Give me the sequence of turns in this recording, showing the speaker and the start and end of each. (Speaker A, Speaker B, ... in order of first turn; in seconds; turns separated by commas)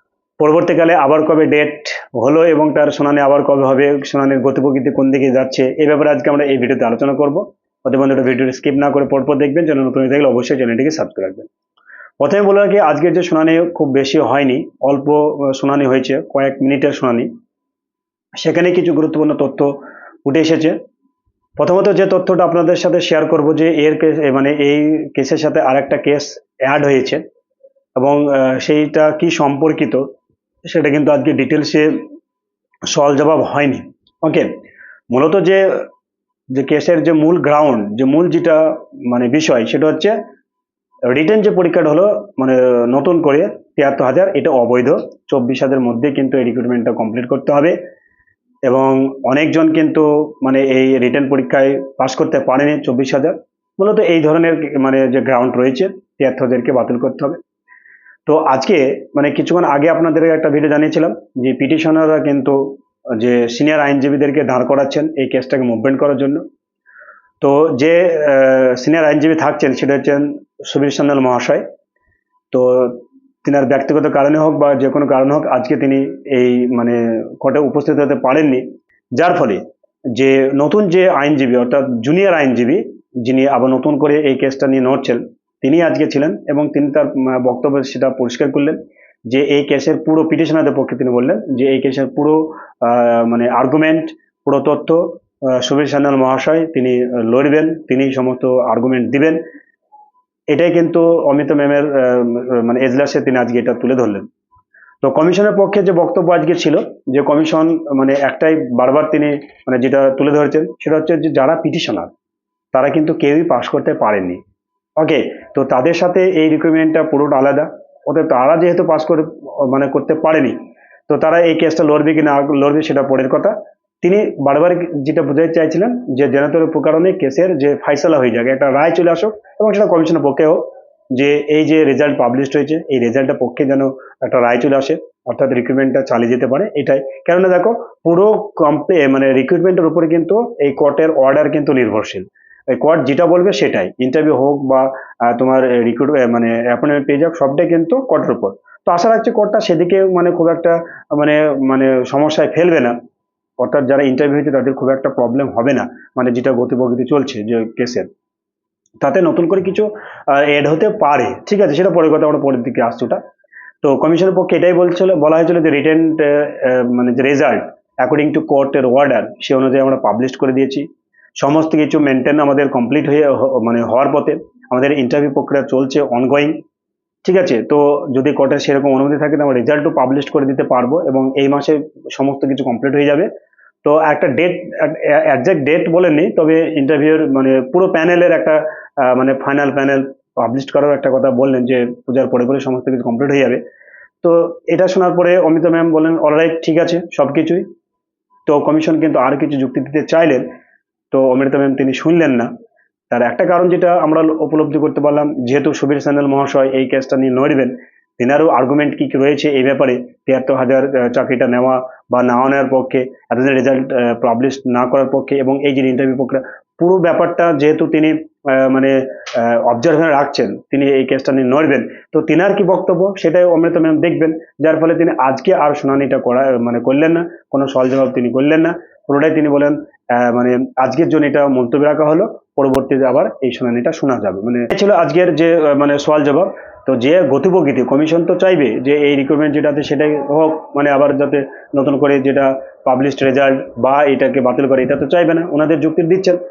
Speaker A: 0.4-11.5, Speaker A: 12.2-17.3, Speaker A: 18.4-20.8, Speaker A: 21.6-27.2, Speaker A: 28.0-30.1, Speaker A: 30.7-32.0, Speaker A: 32.9-34.5, Speaker A: 35.1-35.9, Speaker A: 36.5-40.2, Speaker A: 41.1-47.8, Speaker A: 48.7-57.4, Speaker A: 58.3-66.4, Speaker A: 67.4-71.6, Speaker A: 72.5-78.6, Speaker A: 79.2-99.4, Speaker A: 100.5-104.3, Speaker A: 105.0-112.1, Speaker A: 112.7-114.4, Speaker A: 115.0-120.6, Speaker A: 121.1-152.9, Speaker A: 153.6-158.1, Speaker A: 159.0-163.2, Speaker A: 163.8-170.9, Speaker A: 171.4-176.6, Speaker A: 177.2-183.3, Speaker A: 183.8-193.6, Speaker A: 194.2-197.7, Speaker A: 198.5-200.5, Speaker A: 201.1-202.5, Speaker A: 203.1-246.4